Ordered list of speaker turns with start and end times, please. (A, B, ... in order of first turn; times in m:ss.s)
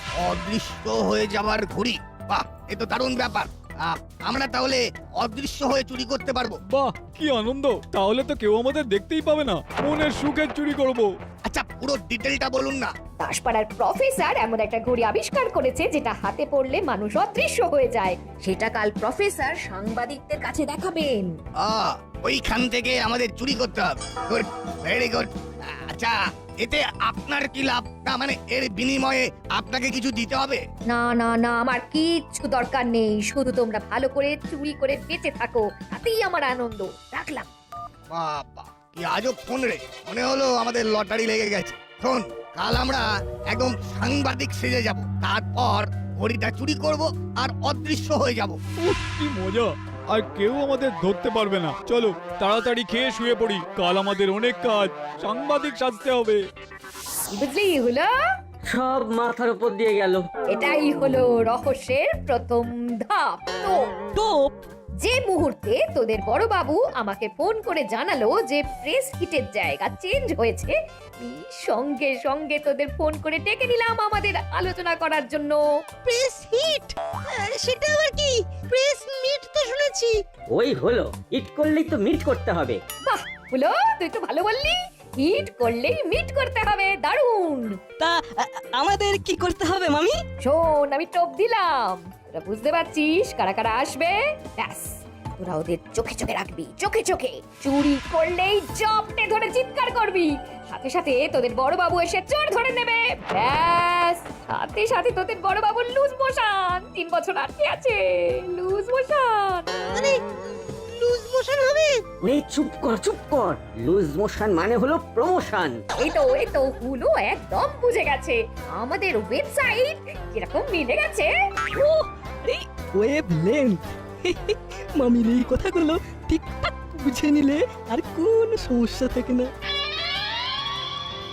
0:00.2-0:06.6 A
0:06.7-0:11.1 B
0:11.5-0:12.9 A
0:13.2-0:21.3 C
0:21.6-0:25.3 A
0:25.9-0:30.6 A
0:30.9-0:37.5 C
0:38.1-0:48.6 A
0:48.8-0:56.4 B
0:57.3-0:58.1 C
0:58.7-1:00.2 D
1:00.5-1:03.7 C
1:04.2-1:04.5 E
1:05.0-1:15.6 C
1:16.0-1:20.2 F
1:20.5-1:22.8 D
1:23.1-1:27.7 C
1:28.0-1:30.1 E
1:30.4-1:49.7 C
1:49.9-1:50.2 F
1:50.9-1:52.0 F
1:52.2-1:55.8 D
1:56.0-2:01.3 C
2:01.8-2:09.5 E